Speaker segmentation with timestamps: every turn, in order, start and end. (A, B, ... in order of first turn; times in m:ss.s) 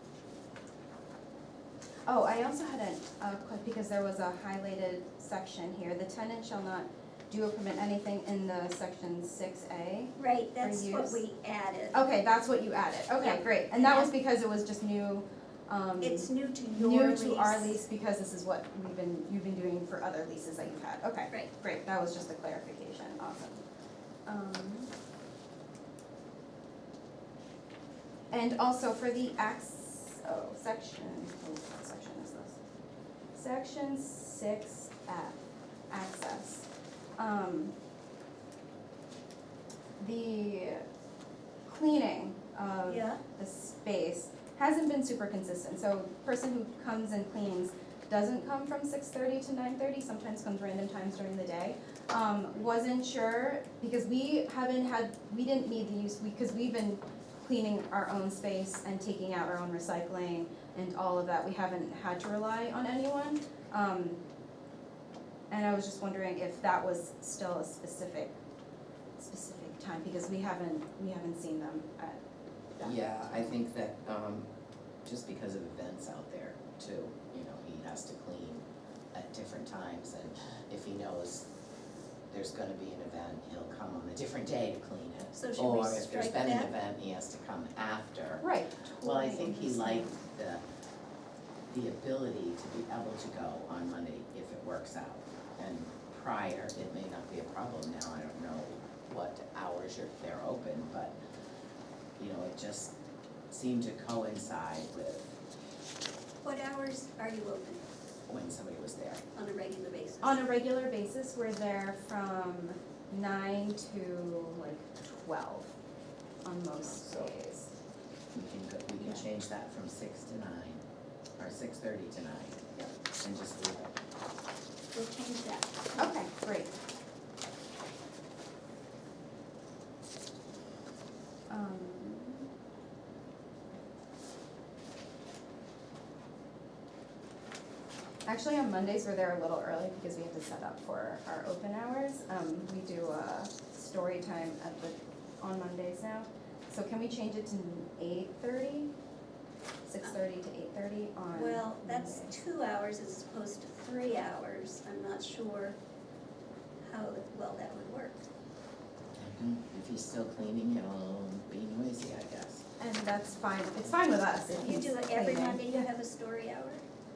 0:02.1-0:11.2 A
0:10.2-0:12.0 B
0:11.9-0:23.6 A
0:13.2-0:14.1 B
0:16.0-0:17.8 B
0:24.2-0:24.9 A
0:28.3-0:32.6 A
0:33.3-0:37.7 A
0:40.0-0:40.8 A
0:41.6-1:04.2 A
0:42.8-0:43.2 B
1:05.5-1:08.3 A
1:09.2-1:12.2 A
1:12.8-1:13.5 A
1:12.8-1:14.5 C
1:15.0-1:21.5 C
1:22.3-1:28.4 C
1:25.3-1:26.7 B
1:28.4-1:30.1 A
1:29.0-1:30.6 C
1:31.7-1:41.1 C
1:42.2-1:42.9 C
1:43.5-1:45.3 C
1:46.4-1:47.8 B
1:48.3-1:49.2 C
1:49.3-1:50.4 B
1:50.2-1:55.8 A
1:56.4-1:57.7 A
1:56.8-1:57.3 C
1:58.3-2:00.8 C
1:59.0-1:59.2 A
2:01.4-2:02.7 C
2:03.2-2:04.0 C
2:04.9-2:06.1 B
2:06.0-2:06.7 A
2:11.5-2:12.5 A
2:18.2-2:28.9 A
2:29.8-2:32.4 A
2:31.3-2:35.8 B
2:36.8-2:38.2 B
2:39.2-2:42.6 C
2:42.8-2:45.8 A
2:44.5-2:46.8 B